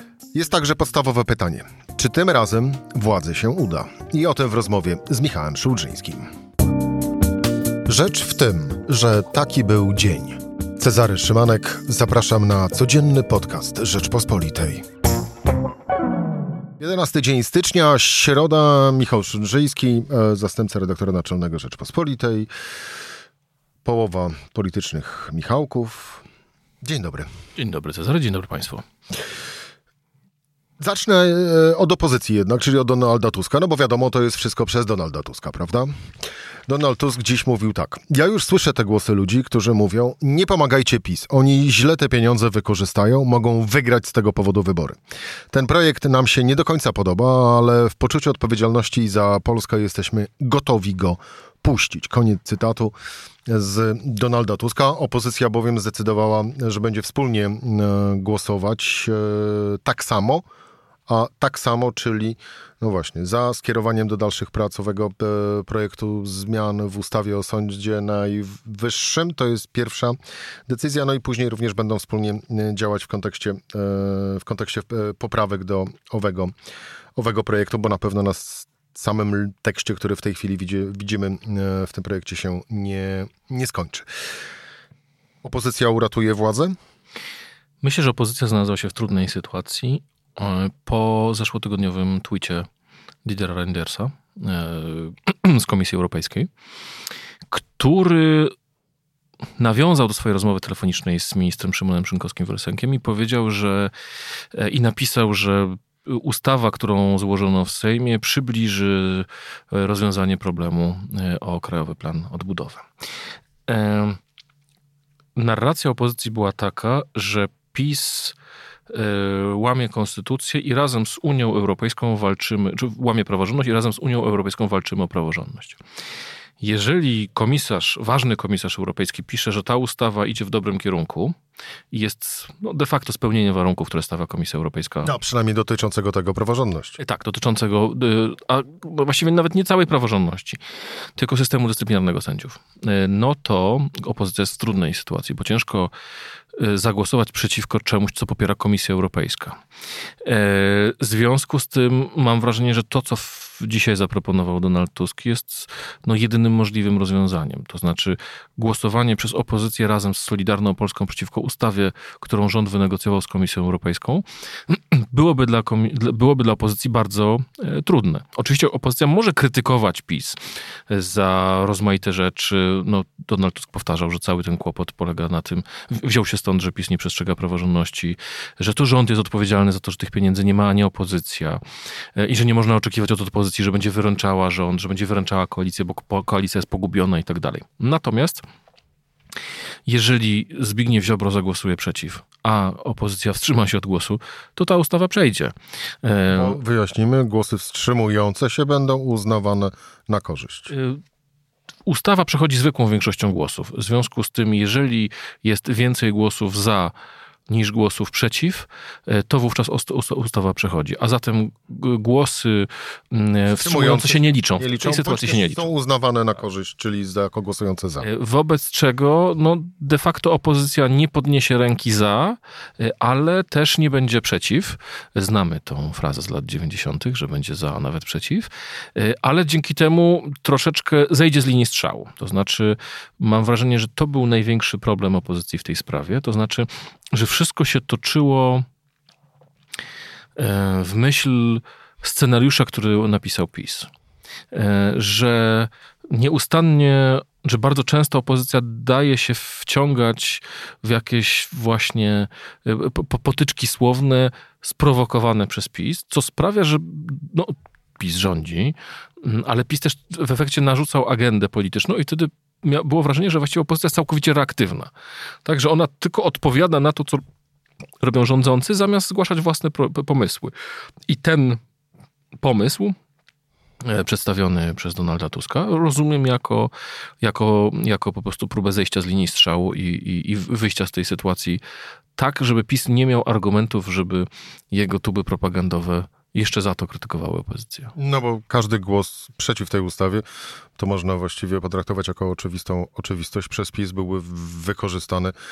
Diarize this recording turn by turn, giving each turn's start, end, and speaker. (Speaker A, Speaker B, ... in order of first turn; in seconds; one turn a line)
Speaker A: 0.3-6.2
Speaker A: 7.8-14.8
Speaker A: 16.8-22.5
Speaker A: 23.8-26.2
Speaker A: 26.8-27.3
Speaker B: 27.6-28.8
Speaker A: 30.8-35.9
Speaker A: 36.7-45.0
Speaker A: 45.5-52.9
Speaker A: 53.5-60.4
Speaker A: 61.1-70.2
Speaker A: 70.7-76.5
Speaker A: 77.2-84.0
Speaker A: 85.4-86.7
Speaker B: 87.8-92.7
Speaker B: 93.2-96.5
Speaker B: 97.5-98.5
Speaker B: 99.6-103.9
Speaker B: 104.5-112.8
Speaker B: 113.7-114.2
Speaker B: 115.3-118.3
Speaker B: 118.9-125.8
Speaker B: 126.6-131.3
Speaker B: 131.9-135.1
Speaker A: 135.0-137.0
Speaker B: 137.0-140.6
Speaker B: 141.2-145.9
Speaker B: 146.6-149.6
Speaker B: 150.2-181.6
Speaker B: 182.2-188.4
Speaker B: 189.8-196.6
Speaker A: 196.3-200.7
Speaker B: 200.7-201.0
Speaker B: 201.8-206.9
Speaker B: 207.5-215.7
Speaker A: 213.5-218.1
Speaker B: 218.0-238.7
Speaker B: 240.4-243.9
Speaker B: 244.5-264.9
Speaker B: 265.4-267.2
Speaker B: 268.0-270.5
Speaker B: 271.1-271.6
Speaker B: 272.4-272.9
Speaker B: 273.8-276.7
Speaker B: 277.2-281.6
Speaker B: 282.1-287.9
Speaker A: 288.0-290.2
Speaker A: 290.8-295.3